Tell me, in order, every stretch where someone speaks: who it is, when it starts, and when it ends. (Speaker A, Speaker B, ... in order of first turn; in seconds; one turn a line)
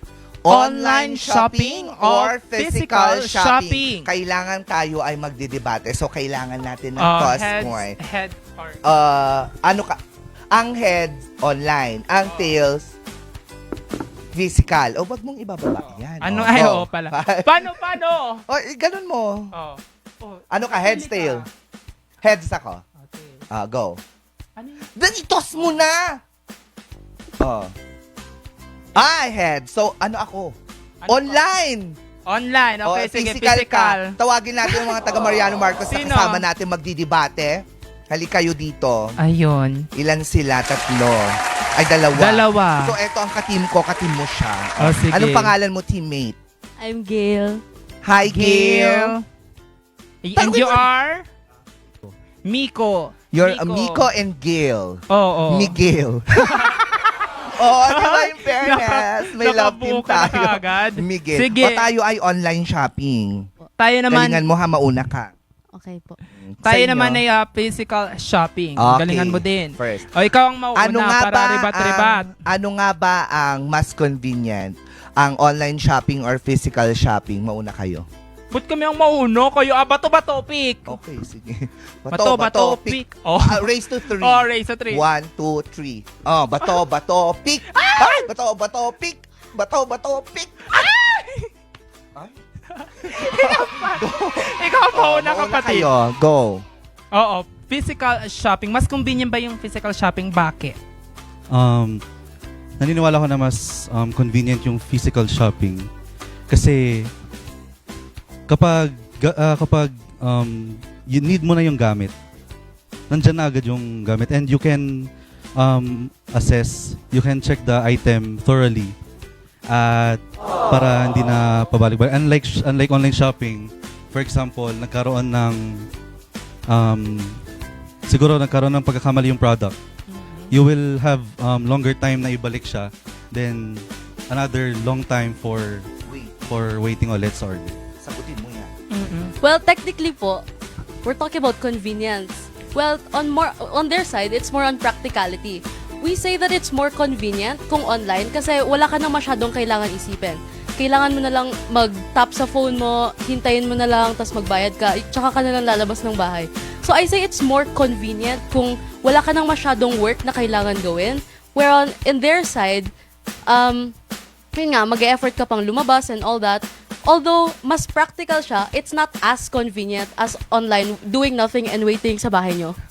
Speaker A: 0.5-8.0
Speaker B: 0.5-4.1
Speaker B: 7.0-8.8
Speaker A: 8.8-10.0
Speaker A: 10.5-12.9
Speaker A: 14.3-17.8
Speaker B: 16.2-18.4
Speaker A: 18.5-19.5
Speaker B: 19.5-21.5
Speaker A: 20.5-21.4
Speaker A: 22.2-22.8
Speaker B: 23.0-23.4
Speaker A: 23.5-24.0
Speaker B: 24.6-24.9
Speaker A: 25.0-26.2
Speaker A: 27.4-27.7
Speaker A: 28.9-30.6
Speaker B: 31.0-31.4
Speaker A: 31.1-32.0
Speaker B: 32.3-34.9
Speaker A: 32.8-39.2
Speaker B: 35.8-36.5
Speaker B: 39.2-39.9
Speaker A: 40.0-46.4
Speaker B: 42.2-43.0
Speaker B: 44.8-45.5
Speaker C: 46.8-47.6
Speaker A: 48.0-49.2
Speaker B: 48.2-49.2
Speaker B: 50.2-51.3
Speaker A: 50.4-50.8
Speaker B: 52.5-54.1
Speaker A: 53.3-56.7
Speaker B: 55.1-55.8
Speaker B: 56.4-61.9
Speaker A: 57.5-63.5
Speaker B: 63.8-64.4
Speaker A: 64.1-65.3
Speaker C: 65.7-66.2
Speaker A: 66.5-67.2
Speaker B: 66.6-72.3
Speaker A: 68.8-70.1
Speaker A: 70.8-78.1
Speaker B: 78.5-80.9
Speaker A: 80.9-90.8
Speaker B: 82.1-85.0
Speaker B: 87.7-88.3
Speaker B: 90.7-91.5
Speaker B: 92.8-95.9
Speaker A: 93.0-96.6
Speaker B: 97.1-100.8
Speaker D: 101.5-102.0
Speaker D: 102.8-105.9
Speaker D: 106.5-107.1
Speaker D: 108.5-112.1
Speaker D: 113.1-118.9
Speaker D: 119.7-125.9
Speaker D: 126.7-127.4
Speaker D: 128.1-129.8
Speaker B: 130.1-130.5
Speaker D: 130.5-135.9
Speaker A: 136.1-136.3
Speaker D: 136.4-137.8
Speaker A: 138.0-138.7
Speaker B: 138.9-139.3
Speaker C: 139.4-140.4
Speaker C: 141.0-162.9
Speaker C: 163.5-163.9
Speaker C: 164.5-172.8